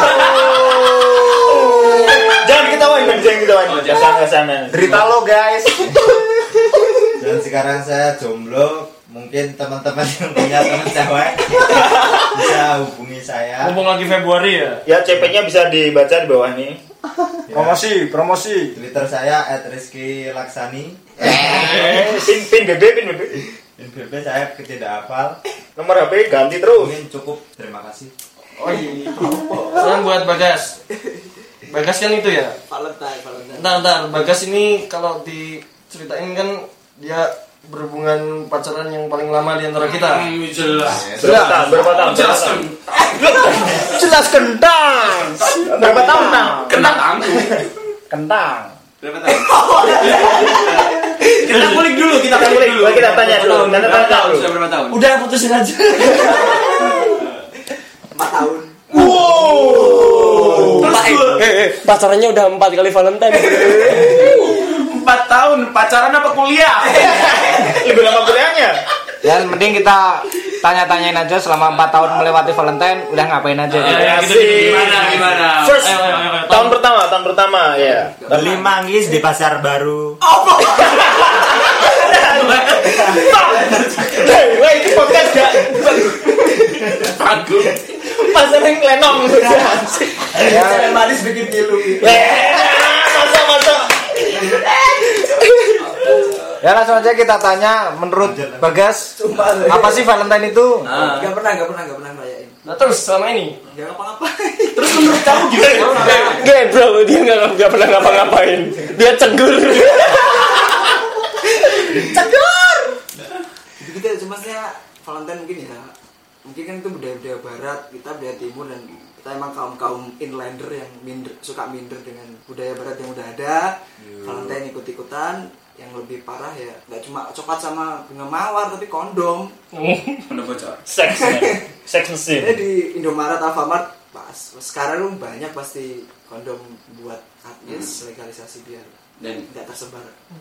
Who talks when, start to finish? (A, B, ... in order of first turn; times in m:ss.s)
0:00.2-0:00.6 A
0:00.2-0:05.1 B
0:03.6-0:04.2 C
0:04.7-0:05.5 D
0:05.5-0:06.5 A
0:07.1-0:13.8 E
0:13.6-0:14.8 F
0:14.8-0:16.8 B
0:17.5-0:17.8 E
0:17.5-0:18.6 A
0:17.8-0:18.2 D
0:18.7-0:21.8 E
0:21.2-0:23.4 B
0:21.6-0:22.1 F
0:23.8-0:25.4 E
0:25.8-0:26.9 B
0:26.7-0:28.1 E
0:28.6-0:30.8 F
0:28.8-0:29.9 A
0:31.0-0:31.3 A
0:31.7-0:32.6 F
0:32.7-0:33.8 A
0:33.5-0:40.3 F
0:39.8-0:44.0 C
0:40.8-0:41.3 E
0:41.0-0:42.6 B
0:41.3-0:41.5 D
0:43.2-0:43.8 A
0:43.2-0:43.8 B
0:43.8-0:46.9 D
0:45.6-0:46.8 B
0:46.7-0:47.6 C
0:48.1-0:48.8 D
0:49.0-0:55.0 C
0:49.3-0:51.7 A
0:51.6-0:54.5 B
0:54.9-0:57.2 F
0:58.1-0:59.1 A
0:58.9-1:01.0 B
0:59.0-1:04.6 F
1:00.2-1:01.4 C
1:03.6-1:04.1 A
1:04.1-1:07.7 C
1:07.0-1:07.8 A
1:07.7-1:08.8 B
1:09.2-1:14.0 D
1:13.7-1:16.0 C
1:13.9-1:16.8 F
1:13.9-1:15.0 B
1:15.5-1:18.7 B
1:17.8-1:18.7 A
1:18.3-1:20.2 E
1:20.2-1:21.3 A
1:21.0-1:26.2 B
1:21.6-1:24.2 C
1:24.9-1:25.2 A
1:25.9-1:26.5 A
1:27.0-1:27.9 C
1:28.1-1:30.1 B
1:30.4-1:32.5 A
1:30.5-1:30.8 E
1:30.5-1:30.9 D
1:32.0-1:34.5 B
1:34.3-1:35.4 A
1:35.9-1:36.3 C
1:36.6-1:39.2 D
1:38.2-1:38.7 E
1:39.1-1:42.5 A
1:39.7-1:40.9 D
1:40.8-1:41.3 C
1:42.6-1:43.6 F
1:43.7-1:46.5 A
1:44.7-1:46.4 C
1:45.5-1:50.6 F
1:51.6-1:53.0 A
1:53.8-1:55.9 A
1:56.4-2:09.5 A
2:04.2-2:04.4 B
2:09.7-2:10.3 F
2:10.3-2:10.8 C
2:10.9-2:12.6 B
2:11.1-2:11.7 A
2:12.4-2:19.0 A
2:17.6-2:18.0 C
2:19.2-2:19.5 C
2:19.5-2:20.1 A